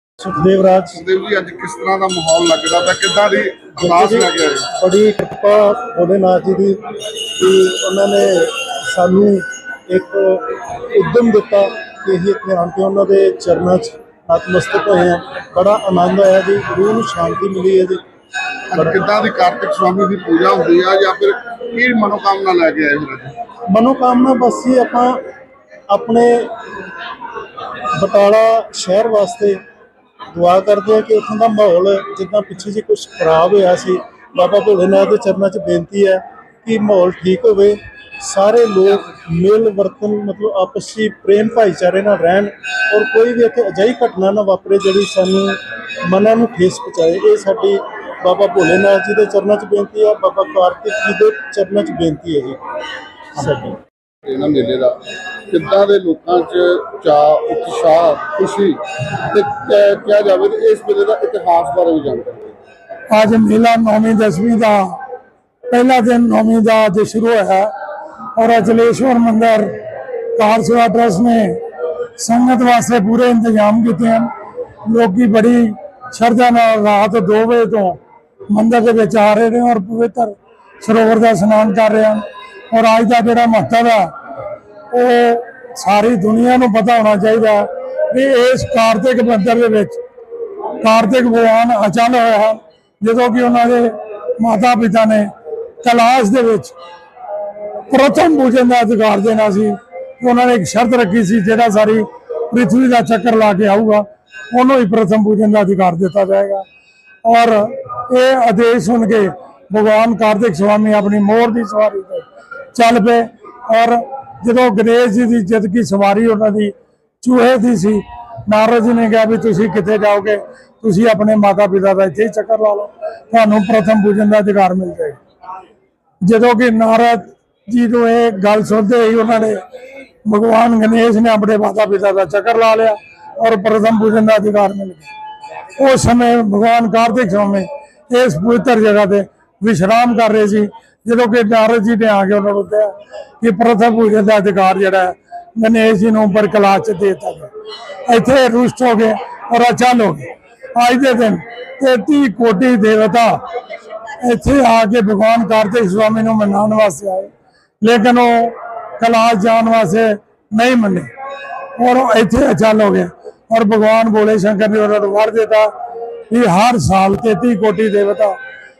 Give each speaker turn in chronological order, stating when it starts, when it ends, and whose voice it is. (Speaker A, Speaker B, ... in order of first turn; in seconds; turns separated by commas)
Speaker A: 0.2-1.0, Speaker B: 0.9-4.7, Speaker A: 3.8-18.0, Speaker B: 18.7-23.4, Speaker A: 23.7-25.2, Speaker A: 25.9-26.5, Speaker A: 27.9-29.6, Speaker A: 30.3-52.6, Speaker A: 53.3-53.8, Speaker B: 54.2-54.9, Speaker B: 55.5-62.5, Speaker C: 63.1-65.0, Speaker C: 65.7-67.7, Speaker C: 68.3-69.7, Speaker C: 70.3-71.6, Speaker C: 72.2-74.3, Speaker C: 74.8-78.0, Speaker C: 78.5-84.1, Speaker C: 84.9-90.0, Speaker C: 90.8-95.3, Speaker C: 95.8-96.7, Speaker C: 97.9-106.6, Speaker C: 107.2-125.2, Speaker C: 126.2-129.6, Speaker C: 130.2-135.1, Speaker C: 135.8-147.5, Speaker C: 148.1-153.4, Speaker C: 154.2-157.3, Speaker C: 157.8-161.1, Speaker C: 161.8-165.7, Speaker C: 166.3-168.3